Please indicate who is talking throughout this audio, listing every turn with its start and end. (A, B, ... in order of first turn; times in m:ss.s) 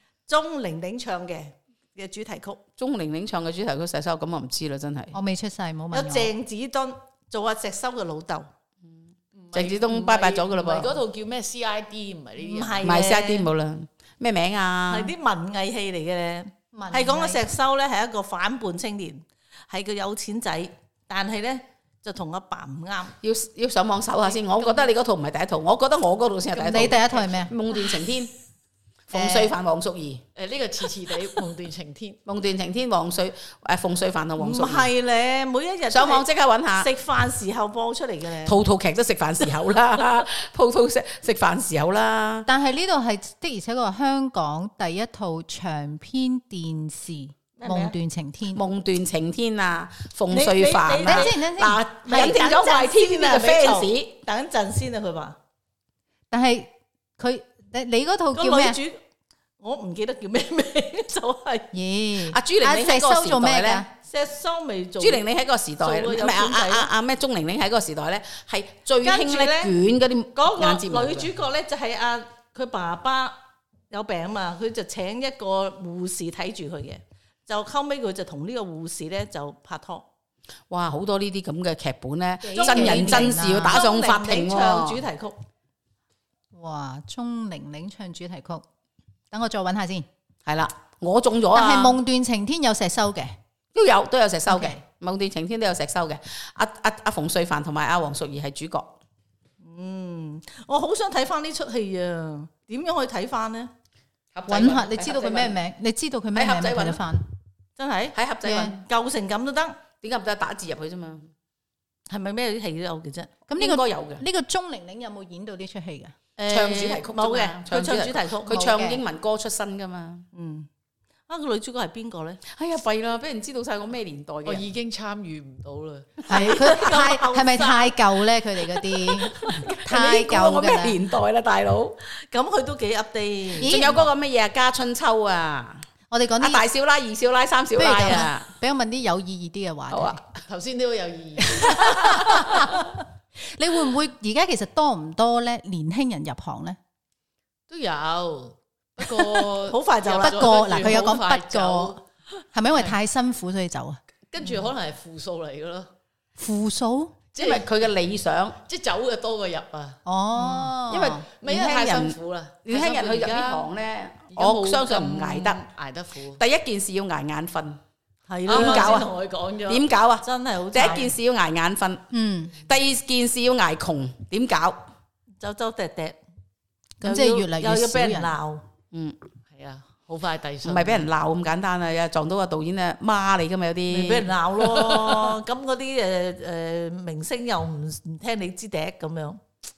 0:00.3-0:02.6 A
0:02.8-0:05.2 B
0:05.1-0:06.3 C
0:05.9-0:08.5 A
0:09.3-0:12.9 D
0:09.5-0:11.0 B
0:12.4-0:13.5 A
0:12.8-0:15.1 B
0:14.9-0:23.2 A
0:16.7-0:17.4 C
0:23.2-0:28.3 B
0:26.6-0:27.5 C
0:29.1-0:30.2 B
0:29.1-0:29.5 C
0:30.3-0:32.2 D
0:32.2-0:34.9 B
0:34.4-0:38.6 A
0:35.9-0:36.9 B
0:38.4-0:42.5 B
0:42.5-0:48.6 C
0:47.6-0:47.9 A
0:48.5-0:54.1 B
0:50.3-0:51.4 A
0:51.0-0:52.3 C
0:52.0-0:55.4 A
0:56.3-0:58.8 C
0:58.3-0:59.0 A
0:59.6-1:01.8 A
1:01.7-1:03.9 C
1:02.2-1:03.8 B
1:04.0-1:05.2 A
1:05.0-1:11.3 B
1:05.8-1:06.9 A
1:09.0-1:09.7 A
1:10.3-1:13.4 A
1:13.9-1:20.0 A
1:20.7-1:25.0 B
1:22.4-1:23.8 C
1:22.5-1:25.4 A
1:26.5-1:28.6 C
1:29.3-1:30.1 C
1:30.4-1:32.0 B
1:31.5-1:33.4 C
1:33.7-1:39.0 B
1:34.5-1:34.8 C
1:39.6-1:43.7 A
1:44.3-1:45.6 B
1:44.5-1:47.2 C
1:46.3-1:47.1 B
1:47.8-1:48.2 A
1:48.1-1:48.8 B
1:48.4-1:48.8 C
1:48.7-1:49.8 A
1:50.0-1:51.3 B
1:52.1-1:53.3 A
1:53.5-1:56.1 C
1:53.6-1:54.2 B
1:56.4-1:58.7 A
1:56.5-2:00.2 B
1:58.5-1:59.0 C
2:00.3-2:00.7 A
2:01.3-2:02.4 A
2:02.5-2:04.7 B
2:04.4-2:06.5 D
2:06.3-2:08.2 A
2:06.3-2:11.0 C
2:09.4-2:12.0 B
2:12.1-2:13.9 A
2:13.6-2:14.0 C
2:13.6-2:15.8 B
2:16.1-2:16.6 C
2:16.4-2:18.5 B
2:17.8-2:20.2 C
2:19.9-2:20.4 B
2:20.5-2:22.3 D
2:21.4-2:26.8 C
2:21.9-2:22.5 B
2:27.7-2:32.0 D
2:29.6-2:31.0 A
2:30.2-2:32.0 C
2:32.5-2:34.0 C
2:32.7-2:33.0 D
2:34.3-2:35.9 D
2:36.4-2:37.2 C
2:37.4-2:38.6 B
2:37.4-2:37.7 D
2:38.6-2:40.6 D
2:40.0-2:42.1 C
2:40.9-2:45.6 B
2:41.4-2:43.7 D
2:44.3-2:46.4 D
2:46.4-2:47.8 B
2:48.3-2:49.1 A
2:48.5-2:49.1 B
2:48.5-2:49.8 D
2:49.6-2:54.9 B
2:50.2-2:51.1 A
2:52.1-2:52.6 C
2:55.4-2:56.2 A
2:57.0-2:58.3 C
2:57.0-2:58.6 A
2:58.9-2:59.2 B
2:59.5-3:01.1 D
3:00.6-3:04.5 B
3:03.9-3:09.4 A